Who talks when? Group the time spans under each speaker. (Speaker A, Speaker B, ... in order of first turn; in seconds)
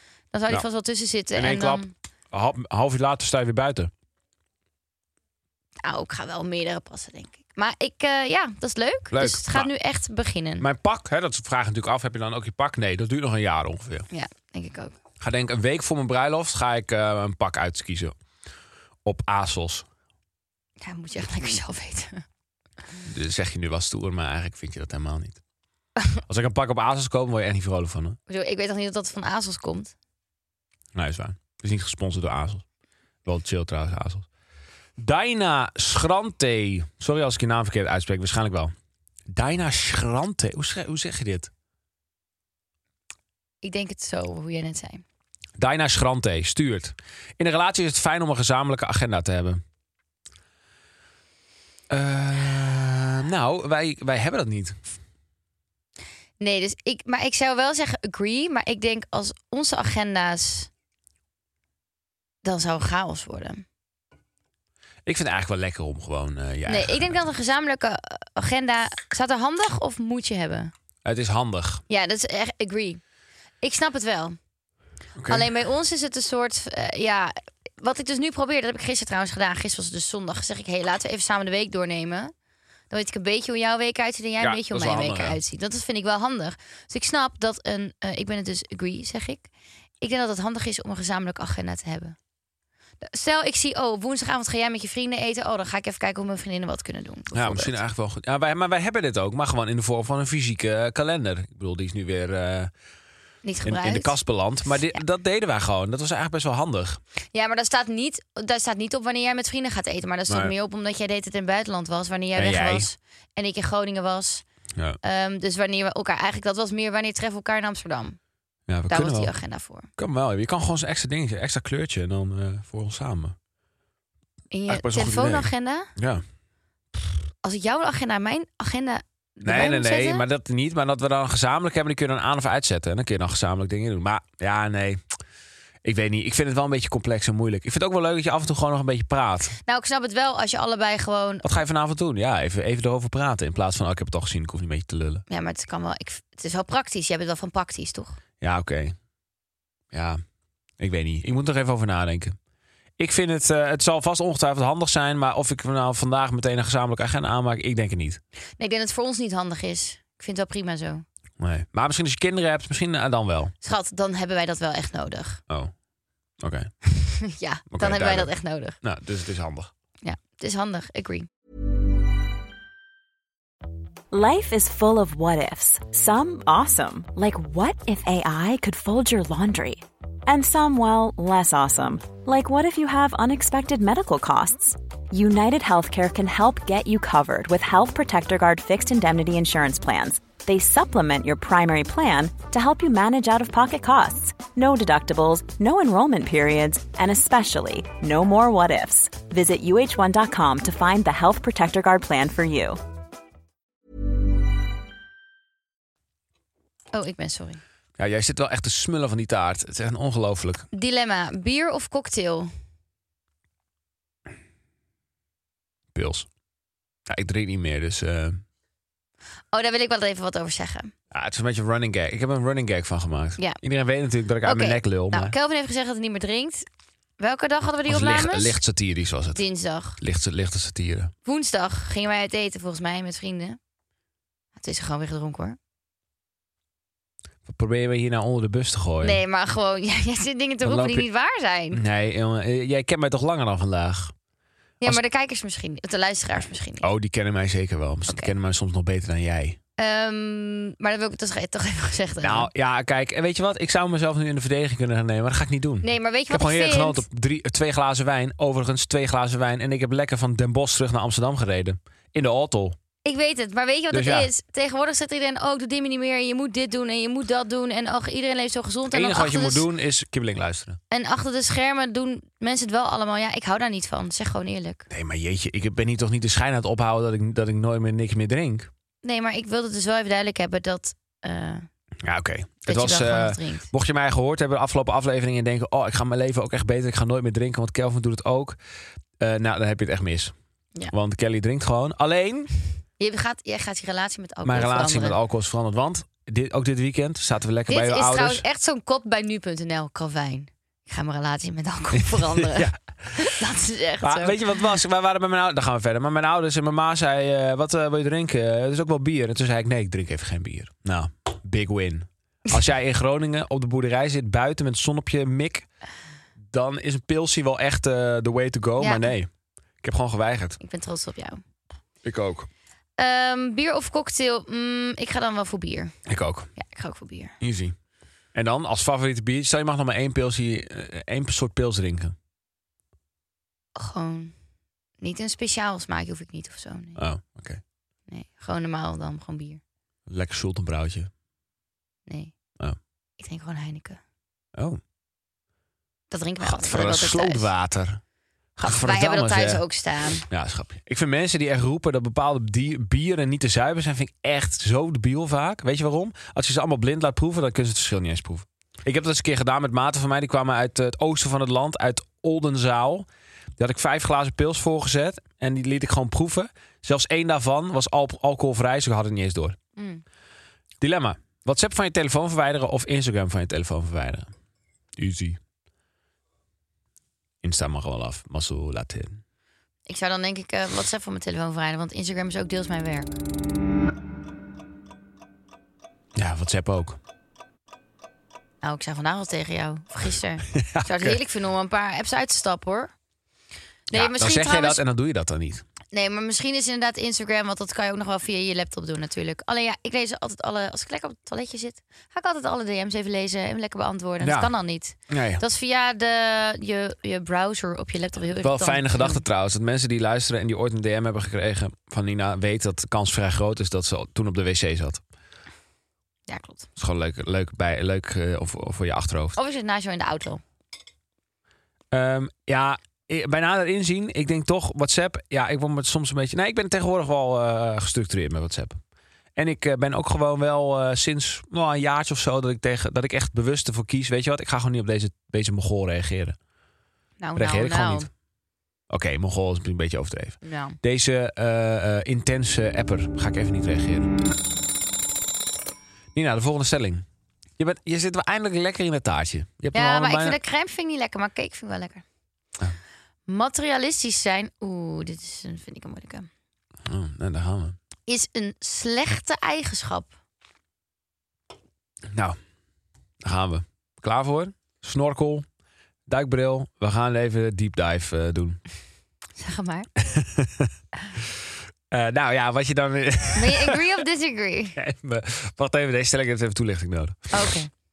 Speaker A: 0.3-1.9, 5.8-10.7, 14.1-14.9, 20.8-22.2, 28.3-29.9, 43.6-45.0, 56.4-60.7, 62.4-63.6, 66.7-70.7, 71.9-73.0, 73.6-74.4, 75.3-82.3, 82.9-89.5, 90.0-92.2, 93.0-97.8, 103.4-104.2, 107.3-114.4, 115.0-118.2, 118.9-119.9, 124.5-125.9, 127.4-130.2, 139.7-141.5, 145.3-148.2, 158.6-161.1, 163.6-165.4, 166.9-168.8, 170.0-171.3, 206.9-207.6, 210.7-212.5, 219.5-220.9, 224.4-226.7, 227.2-228.6, 229.3-230.0, 231.2-233.6, 234.6-235.6, 239.0-241.8, 244.8-246.9, 248.1-248.3, 249.8-252.5, 255.8-257.1, 263.1-269.7, 270.9-274.9, 279.0-281.7, 282.7-283.7, 293.0-295.2, 297.7-304.6, 318.8-319.1, 320.6-321.4, 323.0-325.9, 326.6-327.3, 333.8-334.3, 335.0-337.0, 338.1-339.6, 342.1-342.3, 343.2-344.0, 346.1-347.5, 348.6-350.3, 369.8-370.0, 379.9-383.2, 388.6-392.9, 393.9-394.8, 395.9-409.2, 416.3-416.7, 419.4-420.4, 437.2-438.1, 440.4-440.8, 449.7-452.0, 453.3-456.3, 458.1-460.1, 469.4-469.9, 473.3-474.8, 477.3-477.7
Speaker B: 1.4-3.9, 9.1-9.7, 10.6-14.1, 15.2-18.1, 19.1-19.9, 23.0-25.4, 26.3-28.2, 30.9-32.6, 33.2-34.3, 35.0-38.7, 39.3-41.5, 45.6-49.6, 51.9-54.9, 65.1-67.1, 71.0-71.8, 75.2-75.5, 84.4-85.4, 97.3-102.7, 103.6-107.0, 110.3-110.5, 112.3-112.9, 118.7-119.3, 120.0-123.3, 124.7-126.2, 129.4-135.1, 135.8-139.6, 141.4-145.2, 148.4-149.0, 149.9-150.2, 150.8-152.4, 153.0-158.2, 161.4-163.5, 166.4-166.7, 167.7-169.7, 208.0-210.7, 215.9-216.3, 217.1-218.4, 221.1-225.3, 227.9-229.4, 230.0-231.1, 237.5-239.2, 240.6-241.1, 241.7-244.1, 246.8-249.6, 252.2-262.8, 263.9-264.3, 268.9-270.8, 274.9-278.7, 282.0-288.6, 289.2-290.3, 290.9-292.5, 294.4-298.4, 302.0-303.3, 304.0-315.7, 316.4-319.3, 319.8-320.6, 322.0-322.5, 326.1-326.5, 327.4-327.8, 328.3-332.2, 337.0-337.6, 340.1-341.1, 346.4-348.0, 348.6-349.6, 350.3-369.6, 370.8-374.3, 375.0-375.4, 377.4-379.2, 386.2-387.0, 390.5-391.2, 393.9-395.6, 404.2-404.5, 405.1-405.4, 408.4-415.0, 416.8-419.4, 421.9-428.8, 429.4-436.4, 437.4-438.1, 438.9-444.1, 446.1-447.1, 447.6-450.4, 456.9-457.8, 462.1-462.4, 463.2-465.4, 466.1-468.6, 470.0-470.7, 471.9-474.0, 474.8-477.6
Speaker C: 174.1-202.8